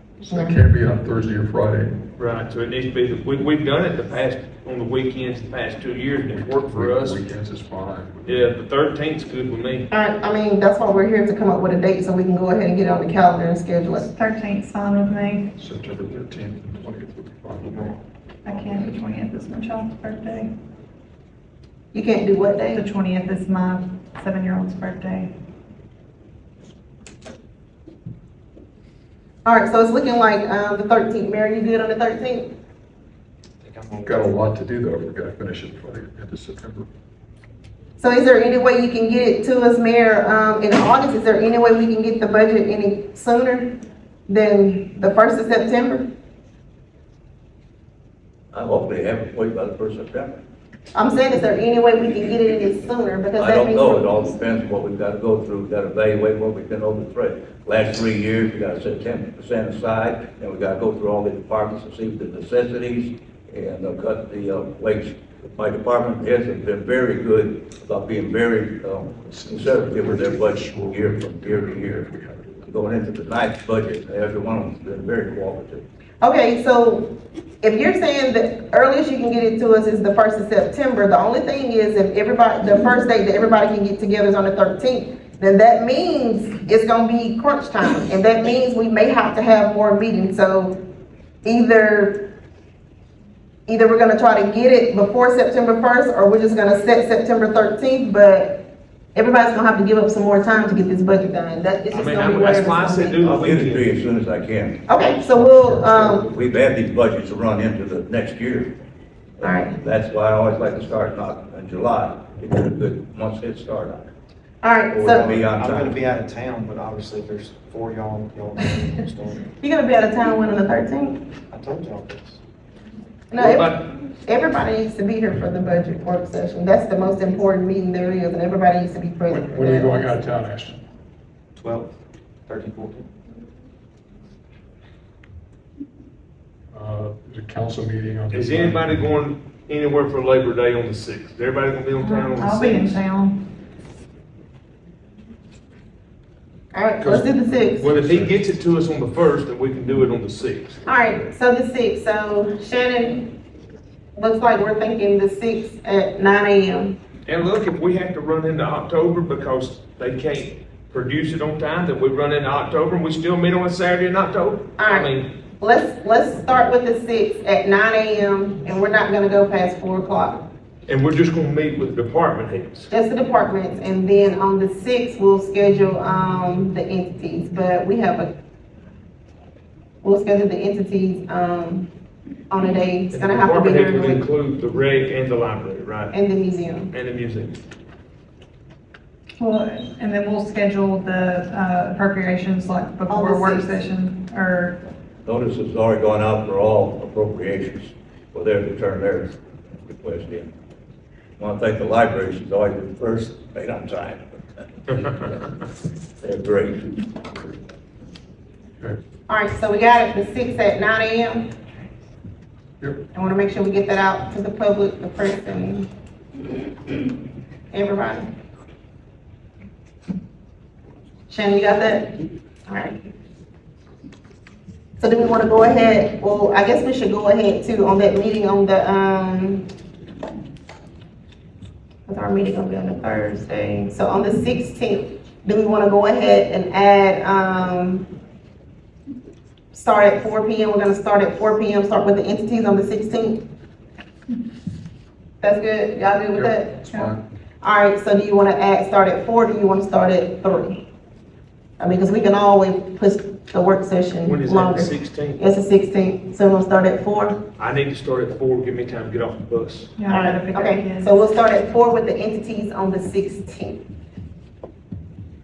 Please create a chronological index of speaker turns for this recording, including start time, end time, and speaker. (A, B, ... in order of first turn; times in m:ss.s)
0:00.3-0:02.0 A
0:00.3-0:00.6 B
0:02.2-0:07.2 C
0:06.3-0:08.5 A
0:08.2-0:09.9 C
0:09.9-0:14.1 B
0:14.1-0:15.5 D
0:15.6-0:18.0 A
0:17.6-0:18.0 E
0:18.4-0:20.5 D
0:21.9-0:22.8 B
0:22.7-0:25.3 D
0:29.4-0:32.5 B
0:33.6-0:34.3 E
0:34.0-0:36.9 A
0:38.0-0:43.8 B
0:44.3-0:46.0 B
0:48.5-0:50.4 F
0:50.9-0:54.2 B
0:53.4-1:12.1 F
1:09.1-1:13.0 A
1:12.6-1:15.8 F
1:16.2-1:30.8 B
1:31.4-1:32.3 B
1:33.7-1:38.6 B
1:39.1-1:43.4 B
1:41.9-1:43.9 C
1:43.4-1:44.9 F
1:44.8-1:46.3 B
1:45.1-1:46.0 A
1:46.1-1:48.7 F
1:49.4-1:54.1 F
1:49.4-1:49.8 B
1:54.6-1:55.4 B
1:54.9-1:55.9 F
1:55.0-1:59.4 E
1:59.6-2:01.2 B
2:01.5-2:02.4 E
2:03.3-2:10.1 B
2:03.4-2:03.9 C
2:09.3-2:10.8 A
2:11.6-2:11.9 E
2:12.5-2:13.1 E
2:16.7-2:19.1 A
2:18.3-2:23.0 C
2:22.0-2:23.4 D
2:26.7-2:27.9 B
2:27.0-2:27.2 C
2:27.7-2:28.3 A
2:27.8-2:30.8 C
2:30.8-2:33.3 B
2:34.2-2:37.0 B
2:37.2-2:45.3 C
2:44.8-2:50.4 B
2:50.9-2:52.9 C
2:52.9-2:58.3 B
3:00.0-3:01.9 B
3:02.5-3:04.2 B
3:03.1-3:06.2 C
3:06.1-3:06.9 B
3:06.9-3:07.6 C
3:09.4-3:14.8 D
3:13.1-3:13.8 B
3:15.2-3:19.3 F
3:19.9-3:20.5 F
3:21.4-3:24.2 F
3:25.0-3:25.4 A
3:26.2-3:27.1 F
3:29.3-3:31.5 B
3:33.1-3:35.9 B
3:37.7-3:38.3 B
3:41.3-3:42.1 B
3:42.7-3:42.9 B
3:45.0-3:49.6 B
3:52.1-3:58.1 B
3:59.7-4:03.4 B
4:05.4-4:06.8 B
4:06.3-4:07.2 A
4:07.6-4:10.8 B
4:11.8-4:17.4 B
4:14.2-4:15.4 C
4:17.6-4:19.9 C
4:20.0-4:21.2 D
4:20.1-4:23.8 B